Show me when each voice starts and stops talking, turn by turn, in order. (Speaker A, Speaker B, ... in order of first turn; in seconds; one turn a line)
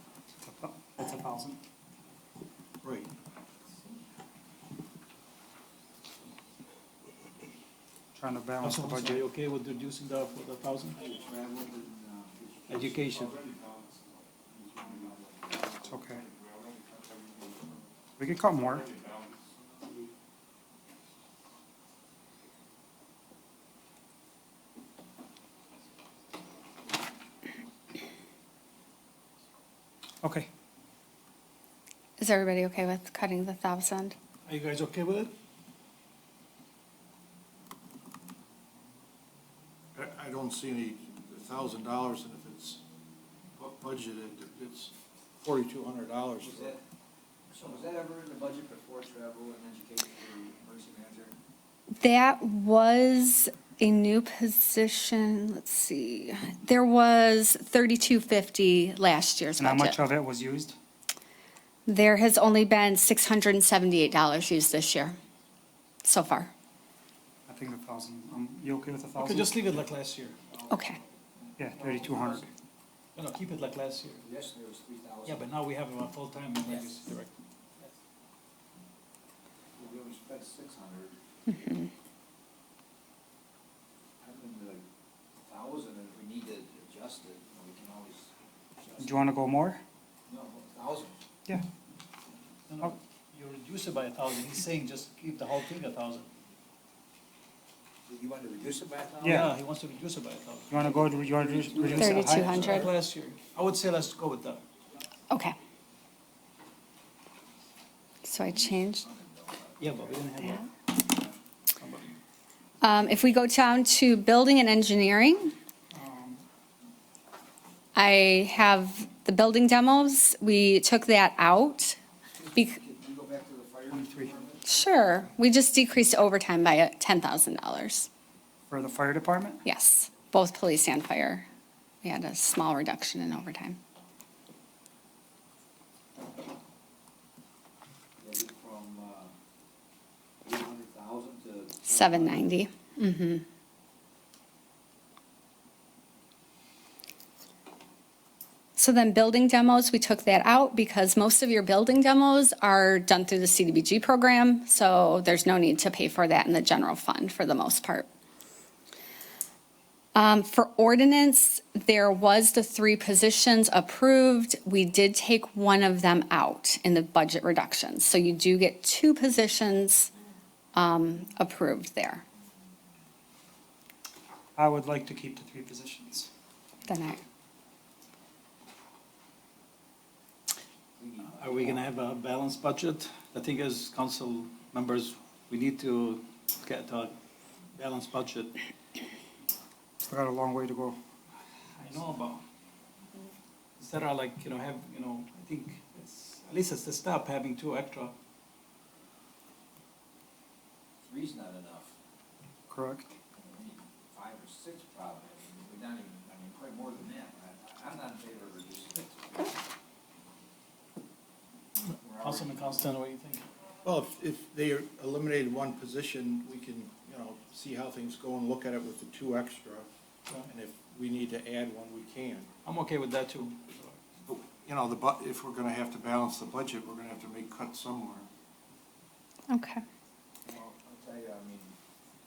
Speaker A: 0.5-1.6
Speaker B: 2.8-3.1
Speaker A: 8.1-9.2
Speaker C: 8.6-11.0
Speaker D: 11.0-13.2
Speaker C: 12.7-13.3
Speaker B: 13.2-15.2
Speaker D: 14.8-15.3
Speaker B: 15.8-17.8
Speaker A: 15.8-16.2
Speaker A: 18.2-18.9
Speaker B: 18.8-20.1
Speaker A: 30.2-30.5
Speaker E: 32.2-34.1
Speaker C: 34.5-35.3
Speaker B: 40.0-42.8
Speaker B: 43.6-46.8
Speaker D: 46.4-46.8
Speaker D: 47.5-51.4
Speaker E: 52.0-60.0
Speaker A: 59.6-60.8
Speaker E: 61.9-65.2
Speaker E: 66.0-66.5
Speaker A: 67.5-69.6
Speaker C: 69.2-70.4
Speaker D: 70.5-72.4
Speaker E: 70.7-71.0
Speaker A: 71.6-72.5
Speaker C: 73.1-74.2
Speaker D: 74.2-75.4
Speaker C: 75.2-77.3
Speaker D: 76.6-77.0
Speaker D: 79.8-81.1
Speaker E: 81.5-81.9
Speaker D: 84.2-84.8
Speaker D: 85.4-89.2
Speaker A: 89.0-89.8
Speaker D: 90.3-91.2
Speaker C: 92.7-96.3
Speaker D: 98.1-99.5
Speaker A: 99.2-99.5
Speaker C: 99.2-104.6
Speaker A: 100.7-102.9
Speaker E: 101.9-102.9
Speaker E: 105.3-105.6
Speaker E: 108.2-109.0
Speaker D: 108.4-111.3
Speaker C: 109.8-110.7
Speaker E: 110.4-110.7
Speaker C: 111.8-112.2
Speaker E: 112.8-115.5
Speaker A: 115.9-116.4
Speaker E: 118.0-122.0
Speaker D: 122.3-124.9
Speaker A: 123.9-124.3
Speaker E: 124.6-128.1
Speaker A: 128.7-129.6
Speaker E: 129.6-131.4
Speaker E: 132.0-133.8
Speaker D: 138.2-139.3
Speaker D: 140.4-142.6
Speaker E: 141.8-143.4
Speaker E: 148.8-158.1
Speaker E: 160.2-170.1
Speaker E: 170.7-172.2
Speaker A: 174.6-176.3
Speaker E: 176.9-177.2
Speaker D: 181.0-181.9
Speaker C: 181.2-187.1
Speaker C: 187.7-188.6
Speaker A: 190.1-191.0
Speaker C: 191.7-192.4
Speaker C: 193.8-198.1
Speaker D: 201.0-201.9
Speaker A: 202.7-203.2
Speaker D: 203.3-209.5
Speaker D: 211.9-212.9
Speaker C: 212.2-213.4
Speaker B: 213.8-222.5
Speaker C: 222.6-224.0
Speaker B: 224.2-228.3
Speaker E: 229.5-229.8
Speaker D: 230.4-231.7